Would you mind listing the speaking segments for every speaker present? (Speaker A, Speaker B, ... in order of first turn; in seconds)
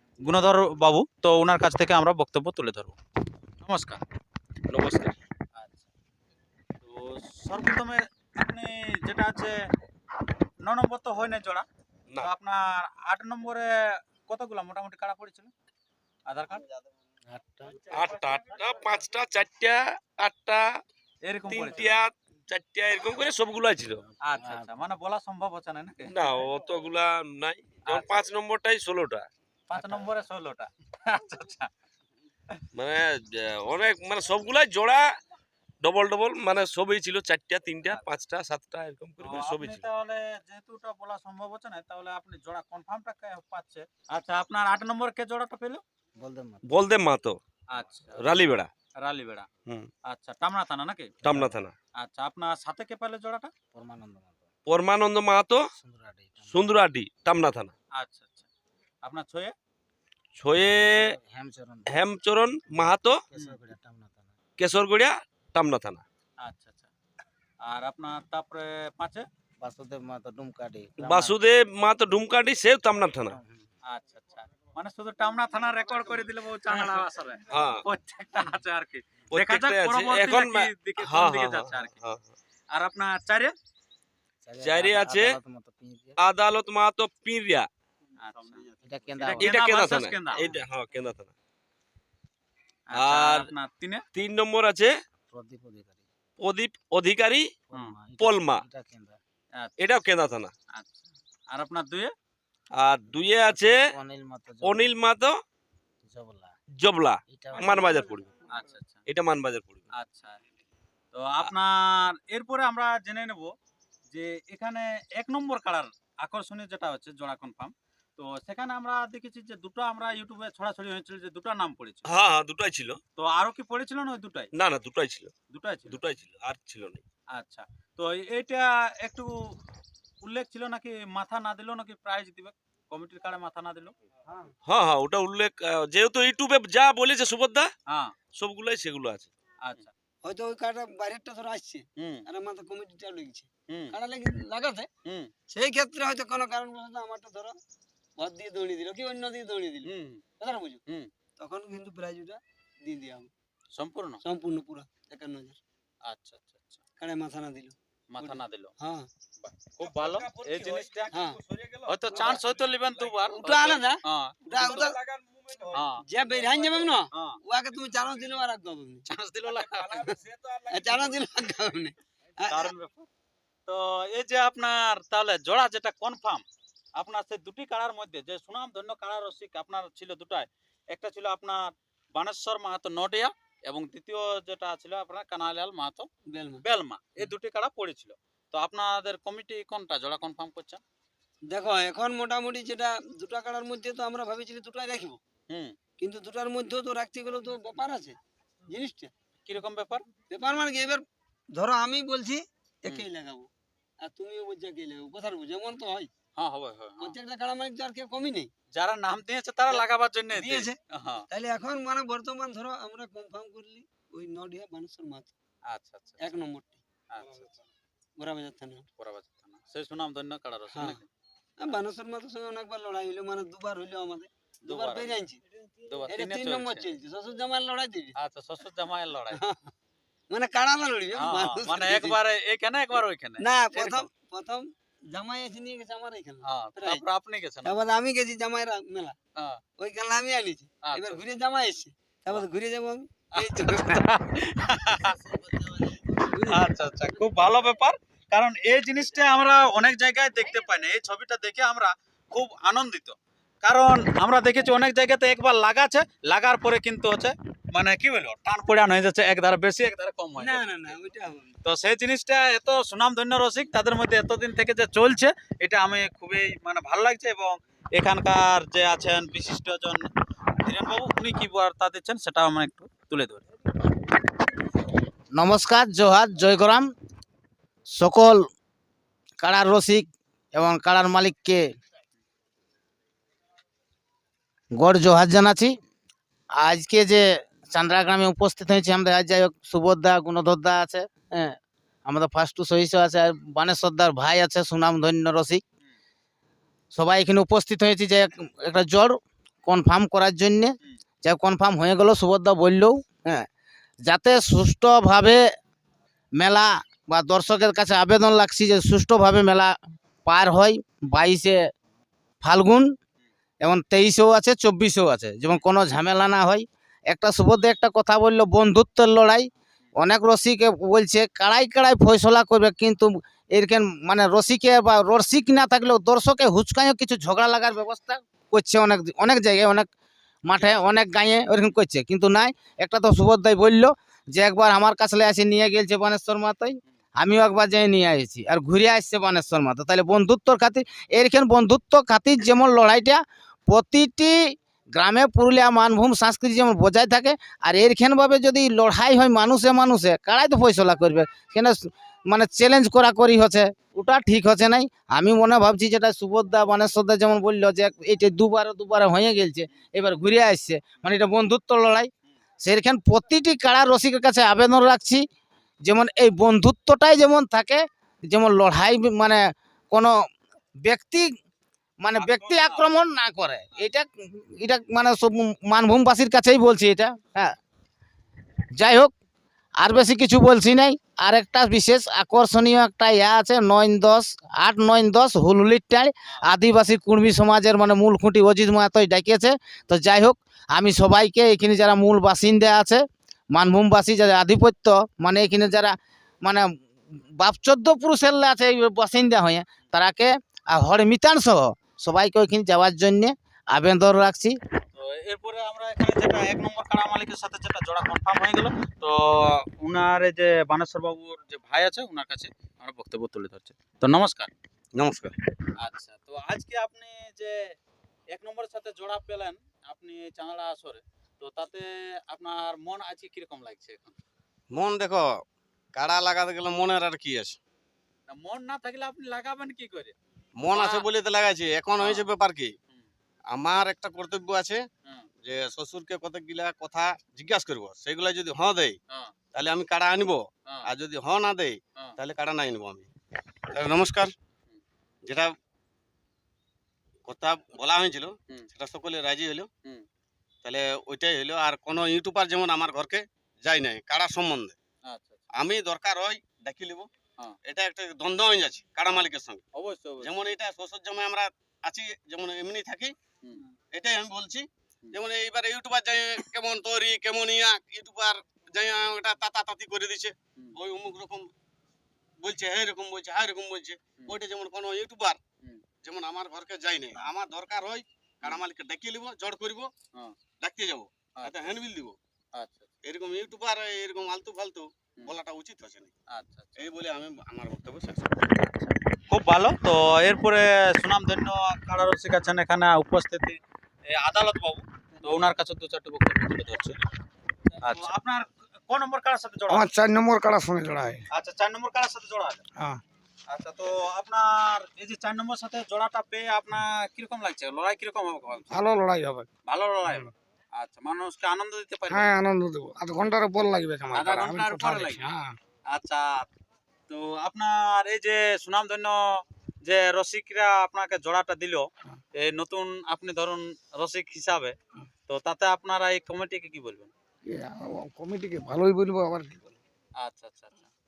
Speaker A: 0.2-3.0, 3.6-4.0, 5.5-5.9, 6.8-9.5, 10.6-11.7, 12.2-13.7, 14.2-15.5, 16.3-16.6, 21.2-21.9, 24.2-26.1, 27.9-28.1, 29.7-31.7, 39.2-45.8, 47.7-48.2, 49.0-49.5, 50.0-51.1, 52.0-53.5, 58.0-58.5, 59.0-59.5, 66.4-66.9, 67.6-69.2, 73.8-82.0, 82.7-83.5, 88.2-88.6, 89.2-90.5, 92.9-94.0, 99.6-99.8, 100.7-102.1, 108.5-109.0, 109.9-110.4, 111.1-113.5, 114.1-122.1, 123.2-124.5, 125.5-126.0, 127.3-129.5, 130.2-133.9, 137.9-138.1, 139.6-139.9, 142.0-142.2, 143.7-143.9, 145.0-145.3, 149.8-150.2, 153.7-154.2, 156.0-156.8, 158.1-158.7, 159.4-161.1, 161.9-164.9, 165.7-166.0, 167.1-167.4, 169.1-170.1, 172.5-173.1, 173.7-176.4, 176.9-186.1, 186.6-190.8, 195.5-195.7, 199.4-200.0, 206.4-207.1, 208.7-211.2, 215.7-216.4, 217.1-217.5, 219.0-221.1, 224.6-225.1, 225.8-226.9, 228.2-229.4, 231.2-234.1, 236.4-237.8, 240.8-241.2, 243.3-260.9, 261.6-270.1, 270.6-273.4, 372.2-372.9, 386.2-386.5, 404.9-414.5, 415.8-417.6, 418.3-424.2, 428.3-430.1, 430.7-431.1, 432.0-432.3, 455.0-455.4, 459.7-460.4, 481.4-481.8, 482.5-482.9, 486.3-486.9, 489.3-493.6, 494.1-497.0, 497.8-499.9, 501.3-502.6, 503.5-508.7, 509.7-512.3, 514.1-515.2, 515.9-516.5, 517.1-519.2, 519.8-524.7, 525.3-527.1, 530.2-530.9
Speaker B: 4.7-5.2, 17.9-20.8, 21.5-24.0, 26.1-29.3, 32.7-35.0, 35.8-39.9, 46.7-47.4, 48.2-48.7, 51.2-51.7, 54.7-55.6, 56.5-57.7, 60.4-61.1, 61.9-63.2, 64.6-66.0, 71.0-73.4, 77.5-77.8, 79.3-82.3, 84.6-85.3, 86.2-87.7, 89.4-91.3, 92.9-93.5, 94.1-94.9, 96.4-97.5, 98.2-98.6, 99.8-100.5, 102.8-103.8, 104.6-105.4, 106.8-108.3, 109.0-109.9, 122.0-123.0, 124.5-125.3, 125.9-127.0, 134.6-137.7, 138.3-139.3, 159.8-163.2, 164.6-165.8, 166.3-166.9, 169.4-171.3
Speaker C: 17.3-17.9, 24.1-24.7, 46.2-46.6, 51.2-51.5, 53.7-54.5, 55.7-56.6, 60.8-61.9, 63.3-64.3, 69.6-71.3, 73.3-73.7, 84.4-86.2, 88.8-89.5, 95.3-96.0, 97.7-99.2, 103.5-104.9, 106.0-106.5, 107.3-108.2, 275.3-276.9, 277.9-278.4, 279.4-281.6, 284.7-285.7, 286.6-295.6, 296.9-303.5, 304.0-305.4, 306.4-311.6, 312.4-312.9, 313.6-329.9, 330.5-362.1, 362.6-365.2, 365.8-370.1, 370.8-371.3, 372.0-377.5, 378.7-379.1, 379.8-396.8, 397.4-404.5
Speaker D: 134.3-134.5, 140.2-144.9, 145.5-147.6, 148.2-150.8, 151.4-153.3, 154.2-155.6, 157.0-159.1, 161.1-161.4, 162.1-162.4, 163.4-165.0, 166.0-169.0, 170.7-172.7, 186.3-186.6, 191.5-195.2, 196.0-198.2, 198.7-199.1, 200.3-203.5, 204.0-206.1, 207.0-208.5, 209.7-210.8, 211.3-215.3, 216.2-216.8, 218.2-218.8, 220.7-221.0, 221.6-225.4, 226.1-228.1, 229.3-229.7, 230.3-232.2, 233.4-237.0, 237.6-239.2, 239.8-244.1, 246.2-246.6, 260.4-261.5
Speaker E: 414.9-415.3, 424.7-425.3, 425.9-427.6, 430.6-432.7, 433.5-434.8, 435.4-438.9, 439.5-443.1, 443.7-444.3, 445.2-445.5, 447.2-449.7, 450.6-454.7, 455.6-457.1, 457.6-459.6, 460.2-463.1, 463.9-471.5, 472.4-475.4, 476.0-479.9, 480.6-482.1, 483.0-486.1, 486.8-488.7
Speaker F: 499.7-501.2, 508.7-509.5, 512.1-515.5, 527.5-529.7